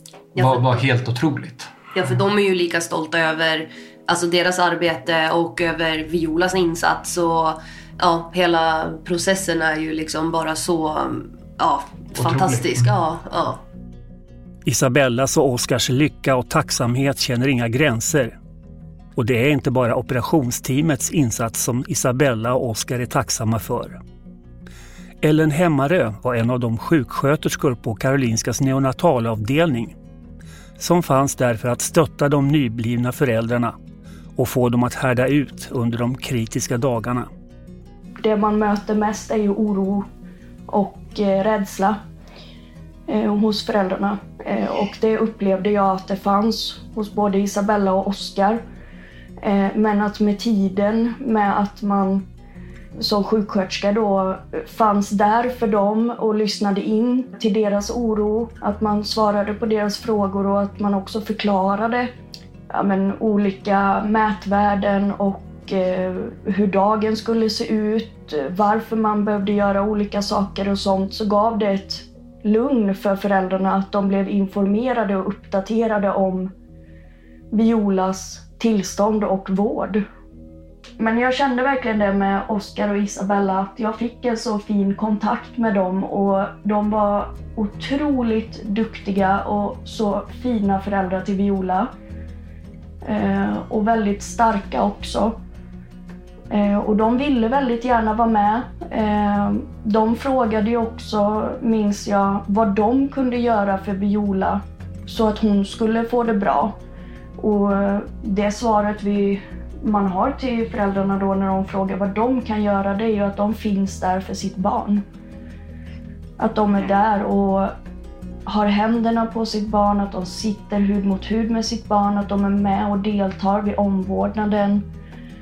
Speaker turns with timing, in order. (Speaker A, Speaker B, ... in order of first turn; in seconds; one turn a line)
Speaker A: 0.3-0.8
Speaker B: 0.3-1.7
Speaker A: 1.9-13.6
Speaker B: 12.1-12.9
Speaker C: 14.7-18.4
Speaker C: 19.2-24.0
Speaker C: 25.2-30.0
Speaker C: 30.8-33.7
Speaker C: 34.4-37.3
Speaker D: 38.2-40.0
Speaker D: 40.7-42.0
Speaker D: 43.1-48.6
Speaker D: 49.4-52.2
Speaker D: 53.0-62.1
Speaker D: 62.7-76.5
Speaker D: 77.5-80.0
Speaker D: 81.0-91.9
Speaker D: 93.0-95.3
Speaker D: 96.5-106.7
Speaker D: 107.4-115.0
Speaker D: 116.4-117.7
Speaker D: 118.5-124.8